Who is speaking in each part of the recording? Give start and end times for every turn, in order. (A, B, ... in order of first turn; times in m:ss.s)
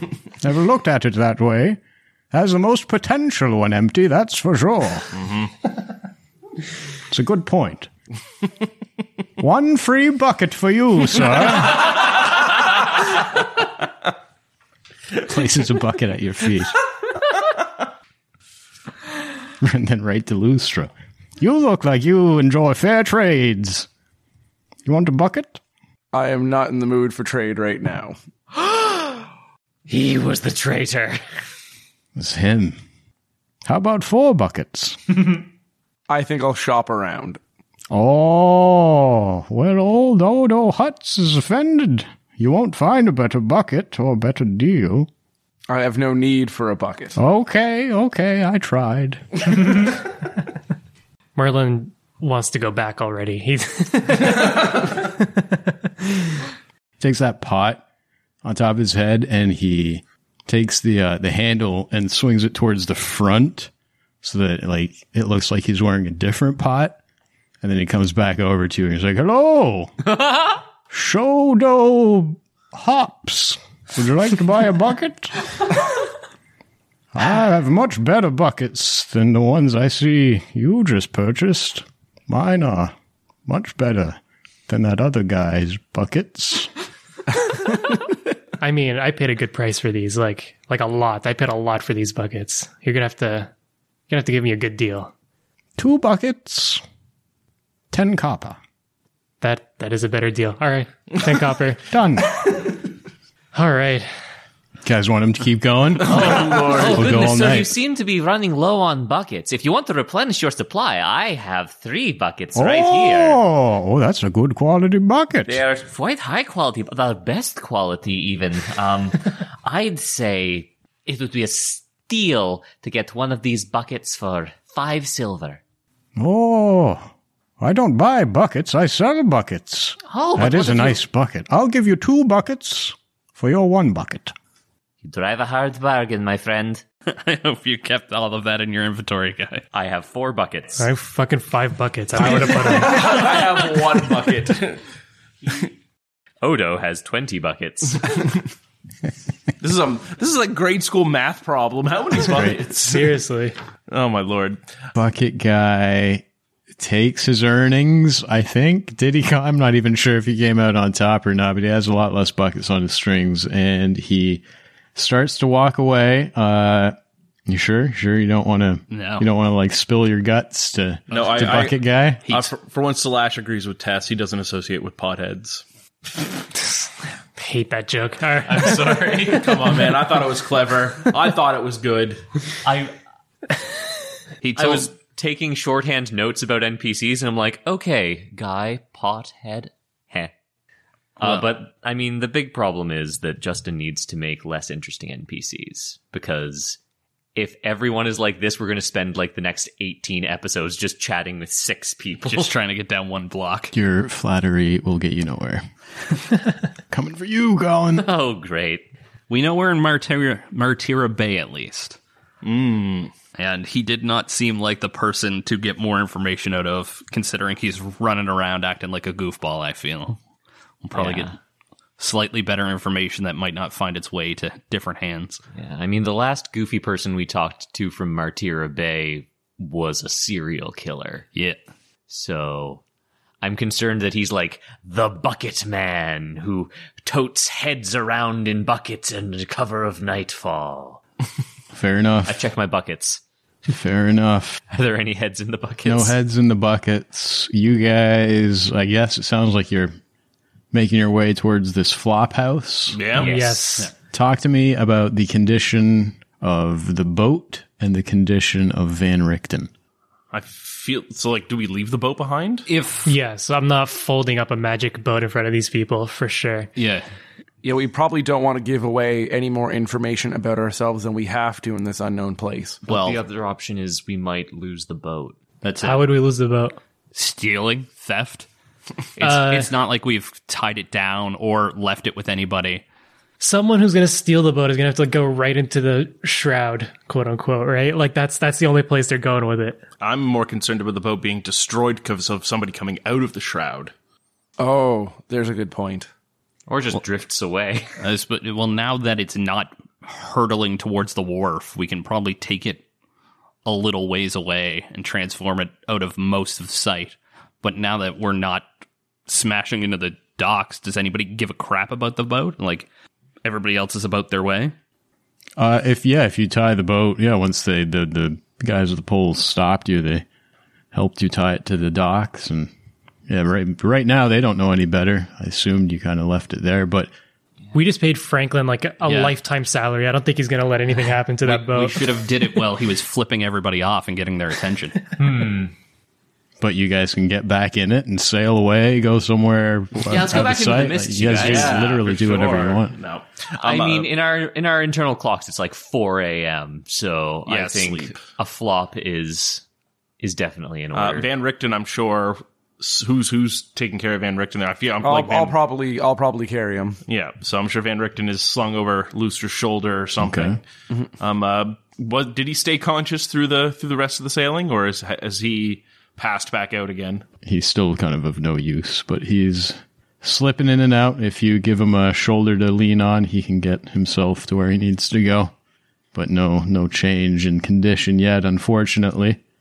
0:00.4-0:01.8 A
0:02.3-0:05.1 A
0:05.2-0:05.5 B
0:07.1-0:07.9 A
0:09.4-0:12.2 A
0:15.2-0:16.8 A
0:19.6-0:23.9 A
0:24.8-0:25.6 A
0:26.1-0:28.2 C
0:28.6-0:29.2 D
0:29.9-0:31.2 D
0:32.1-0:32.8 A
0:33.6-0:35.3 A
0:36.1-0:37.4 C
0:37.9-0:45.1 A
0:45.7-0:47.2 C
0:47.2-0:49.9 A
0:51.4-0:56.4 E
0:57.0-0:57.8 A
0:58.4-1:03.7 A
1:04.2-1:07.0 A
1:07.6-1:10.1 A
1:10.9-1:15.4 A
1:17.1-1:22.9 A
1:23.4-1:26.7 A
1:28.6-1:33.5 E
1:34.1-1:35.1 E
1:35.8-1:36.8 A
1:37.9-1:38.6 A
1:39.4-1:41.8 E
1:41.9-1:42.3 A
1:42.4-1:42.7 E
1:43.5-1:44.1 E
1:44.8-1:47.7 A
1:46.1-1:47.0 B
1:46.1-1:53.4 D
1:52.6-1:55.6 A
1:55.4-2:05.6 D
2:06.2-2:14.3 A
2:10.0-2:11.0 D
2:15.0-2:16.8 D
2:17.1-2:19.6 F
2:19.7-2:20.8 D
2:20.8-2:23.4 E
2:22.2-2:24.8 B
2:26.4-2:28.4 D
2:29.6-2:33.2 B
2:32.3-2:32.6 A
2:32.8-2:33.6 E
2:33.9-2:34.6 B
2:34.9-2:44.4 A
2:44.9-2:52.2 A
2:48.9-2:49.2 F
2:51.1-2:51.8 B
2:52.3-2:55.6 B
2:57.3-2:59.7 E
2:58.4-3:02.2 B
3:02.6-3:02.9 D
3:04.4-3:04.9 F
3:04.5-3:10.3 D
3:11.2-3:16.8 D
3:17.4-3:22.5 D
3:22.2-3:23.7 F
3:23.7-3:25.6 A
3:26.9-3:28.1 A
3:28.0-3:28.8 D
3:29.3-3:32.0 F
3:32.4-3:33.1 B
3:33.3-3:40.2 F
3:40.8-3:41.3 F
3:40.9-3:41.4 D
3:42.0-3:45.4 F
3:45.5-3:51.3 D
3:51.3-3:51.6 F
3:52.1-3:52.8 D
3:53.4-4:01.0 D
4:01.7-4:02.4 A
4:02.2-4:03.2 D
4:03.7-4:04.6 A
4:04.7-4:06.2 D
4:05.8-4:09.9 A
4:10.7-4:13.0 A
4:12.9-4:13.4 B
4:13.1-4:13.6 D
4:13.2-4:13.9 E
4:14.1-4:19.7 A
4:20.3-4:22.7 B
4:22.7-4:23.1 F
4:23.0-4:26.7 E
4:26.8-4:27.1 F
4:27.6-4:32.8 C
4:32.8-4:33.2 F
4:32.9-4:35.4 D
4:35.6-4:36.1 F
4:35.8-4:36.8 E
4:37.1-4:38.5 F
4:39.2-4:42.8 F
4:39.2-4:39.7 E
4:43.4-4:49.8 E
4:50.0-4:53.9 B
4:54.6-4:56.1 C
4:56.7-4:57.9 D
4:58.0-5:02.8 F
5:03.6-5:08.7 F
5:09.3-5:12.9 F
5:13.4-5:14.7 F
5:15.6-5:20.2 A
5:20.9-5:22.7 A
5:23.3-5:27.1 A
5:27.7-5:32.1 E
5:29.0-5:29.3 F
5:31.4-5:35.1 F
5:35.2-5:35.7 D
5:36.6-5:42.9 A
5:40.0-5:42.0 D
5:41.4-5:44.1 B
5:43.6-5:49.6 D
5:47.5-5:48.2 B
5:50.2-5:51.3 D
5:50.9-5:55.6 B
5:55.0-5:57.0 C
5:57.1-6:00.6 B
6:00.2-6:00.6 A
6:01.2-6:07.2 B
6:07.4-6:15.5 A
6:16.1-6:19.4 A